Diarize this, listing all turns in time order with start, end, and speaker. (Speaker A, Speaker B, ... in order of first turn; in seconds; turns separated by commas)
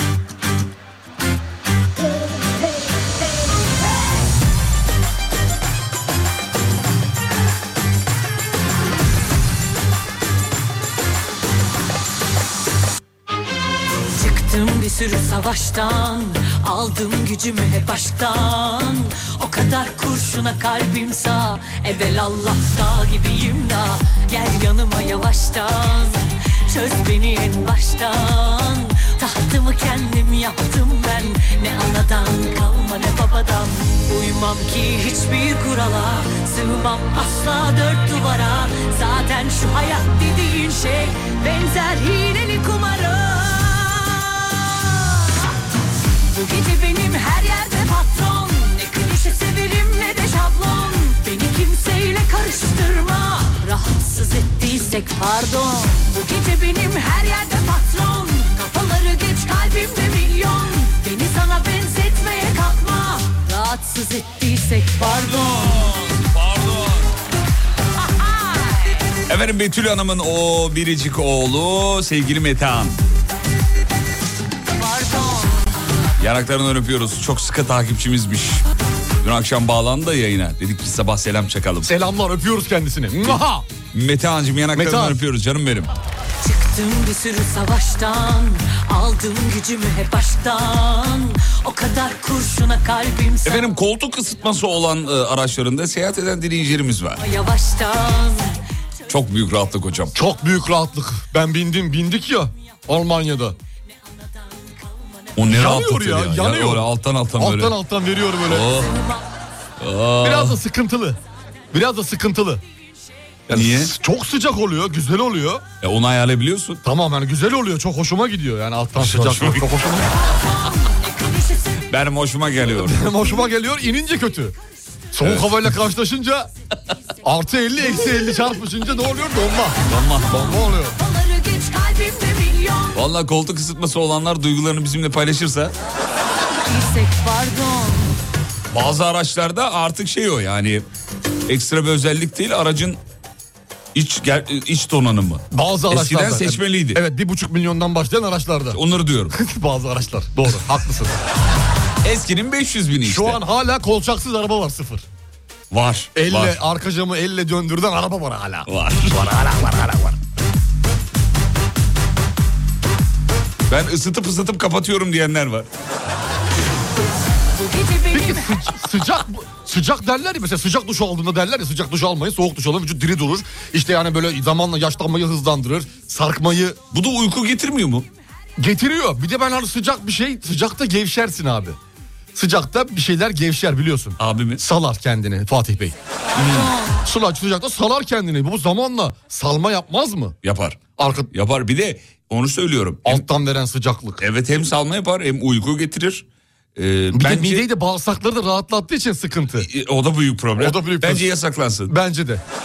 Speaker A: 14.1-45.5, Speaker A: 46.3-65.9, Speaker B: 65.0-67.1, Speaker A: 68.0-68.9, Speaker B: 69.3-73.0, Speaker A: 74.8-75.7, Speaker B: 76.2-78.6, Speaker B: 79.2-81.9, Speaker C: 81.8-83.7, Speaker B: 83.9-85.9, Speaker C: 84.7-85.2, Speaker A: 86.4-93.7, Speaker B: 93.4-97.2, Speaker A: 97.2-98.6, Speaker B: 99.1-100.1, Speaker C: 100.1-103.5, Speaker A: 104.0-105.3, Speaker B: 105.3-107.7, Speaker C: 105.5-106.8, Speaker C: 107.4-108.7, Speaker B: 108.4-109.0, Speaker A: 108.9-109.2, Speaker B: 109.8-110.6, Speaker C: 110.2-111.2, Speaker C: 111.7-112.6, Speaker B: 113.5-113.9, Speaker C: 113.5-115.6, Speaker B: 115.8-116.8, Speaker C: 116.8-120.1, Speaker B: 119.0-119.7, Speaker A: 120.2-121.8, Speaker B: 121.9-123.2, Speaker C: 122.8-124.5, Speaker C: 125.1-126.5, Speaker B: 125.2-125.8, Speaker C: 127.2-129.8, Speaker B: 129.9-130.6, Speaker A: 130.1-133.0, Speaker C: 130.3-131.0, Speaker B: 132.9-135.7, Speaker A: 136.6-138.1, Speaker B: 138.7-140.8, Speaker B: 141.5-143.0, Speaker B: 143.9-147.0, Speaker C: 145.5-148.8, Speaker B: 148.7-149.3, Speaker C: 149.3-151.2, Speaker B: 152.0-153.4, Speaker C: 153.0-155.0, Speaker B: 155.7-156.6, Speaker C: 156.1-160.2, Speaker B: 158.7-159.3, Speaker B: 163.7-165.7, Speaker A: 167.5-168.7, Speaker C: 168.1-176.8, Speaker B: 176.9-178.1, Speaker C: 178.6-181.8, Speaker C: 182.3-185.9, Speaker B: 184.2-184.6, Speaker B: 186.3-186.7, Speaker A: 186.5-187.0, Speaker C: 187.0-190.3, Speaker B: 190.4-190.8, Speaker C: 191.0-191.3, Speaker B: 191.3-193.2, Speaker C: 193.0-194.2, Speaker B: 194.2-196.2, Speaker B: 196.8-197.7, Speaker C: 197.1-199.7, Speaker B: 199.6-201.9, Speaker C: 200.6-201.2, Speaker C: 201.9-202.4